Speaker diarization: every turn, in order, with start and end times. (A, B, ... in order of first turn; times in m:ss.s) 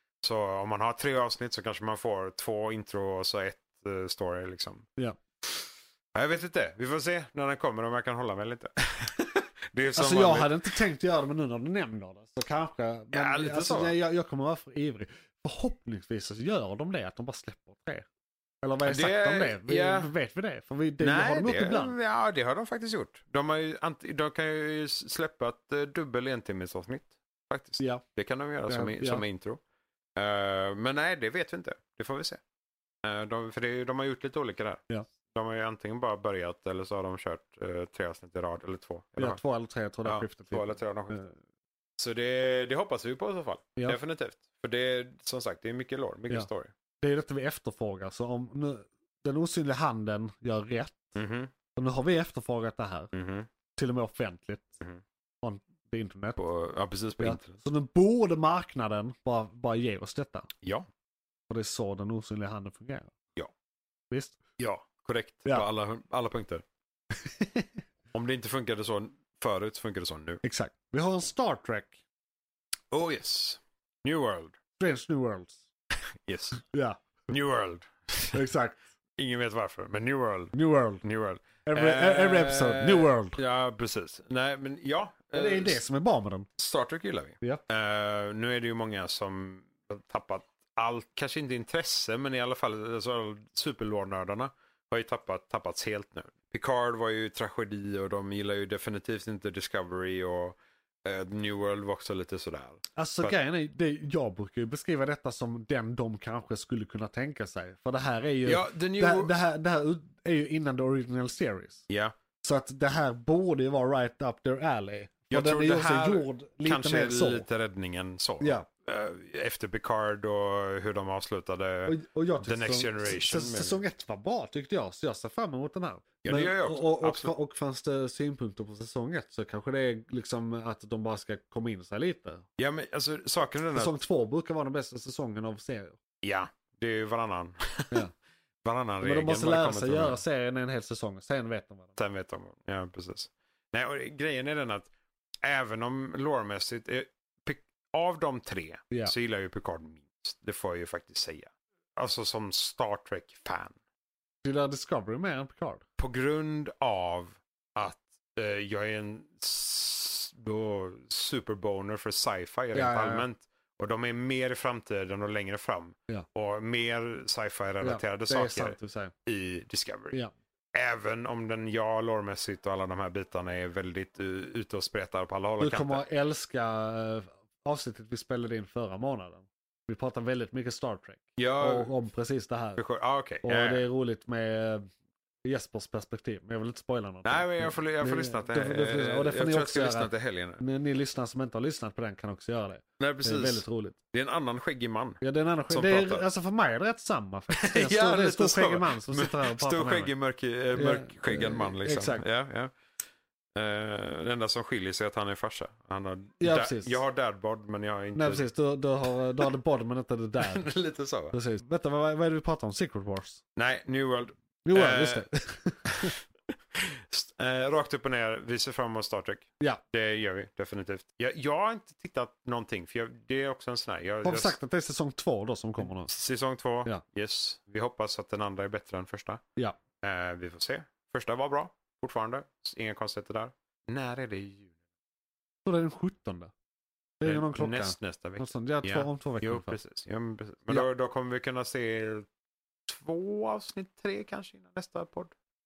0:00.2-0:04.9 A
0:05.5-0:10.6 A
0:10.0-0:18.1 B
0:13.1-0:14.0 A
0:18.6-0:22.0 B
0:18.8-0:20.1 A
0:21.0-0:29.6 A
0:28.7-0:29.2 B
0:30.2-0:32.4 A
0:33.0-0:39.4 A
0:39.2-0:41.4 B
0:40.0-0:41.2 A
0:42.0-0:46.7 A
0:47.0-0:51.1 B
0:51.2-0:51.5 A
0:51.8-0:53.1 B
0:53.1-0:53.5 A
0:53.8-0:54.8 B
0:55.4-0:56.4 B
0:56.4-0:57.6 A
0:57.2-1:00.5 B
1:01.5-1:03.1 B
1:04.1-1:04.4 B
1:04.6-1:06.6 A
1:07.1-1:07.7 B
1:08.1-1:10.4 A
1:10.4-1:12.0 B
1:12.9-1:14.6 A
1:14.8-1:15.6 B
1:16.3-1:16.6 A
1:16.7-1:17.0 B
1:17.3-1:18.5 A
1:18.3-1:18.8 B
1:19.2-1:25.8 A
1:20.5-1:21.0 B
1:21.6-1:23.4 B
1:25.3-1:26.5 B
1:26.6-1:43.4 A
1:43.0-1:51.9 B
1:48.4-1:49.4 A
1:51.9-1:52.2 A
1:52.4-1:57.5 B
1:55.3-2:03.8 A
1:58.4-1:58.7 B
2:01.8-2:12.4 B
2:06.2-2:07.3 A
2:12.6-2:14.0 A
2:13.7-2:16.0 B
2:16.2-2:18.1 A
2:18.6-2:20.2 A
2:19.0-2:22.0 B
2:21.9-2:24.9 A
2:25.4-2:33.8 A
2:34.4-2:35.8 B
2:36.0-2:50.2 A
2:42.7-2:43.3 B
2:47.8-2:49.1 B
2:50.7-2:56.0 A
2:55.6-3:02.8 B
3:01.4-3:01.9 A
3:02.8-3:03.9 A
3:03.4-3:04.9 B
3:05.4-3:14.0 B
3:07.2-3:10.6 A
3:13.0-3:16.3 A
3:15.2-3:20.1 B
3:17.6-3:22.7 A
3:20.7-3:22.2 B
3:23.6-3:28.4 A
3:26.4-3:27.0 B
3:28.2-3:30.7 B
3:30.4-3:31.4 A
3:31.3-3:33.4 B
3:33.6-3:35.3 A
3:34.6-3:36.1 B
3:36.8-3:44.6 A
3:44.2-3:46.1 B
3:45.8-3:49.4 A
3:50.0-3:54.7 A
3:55.6-3:56.5 B
3:57.2-3:59.8 B
3:57.2-4:02.3 A
4:02.9-4:05.3 A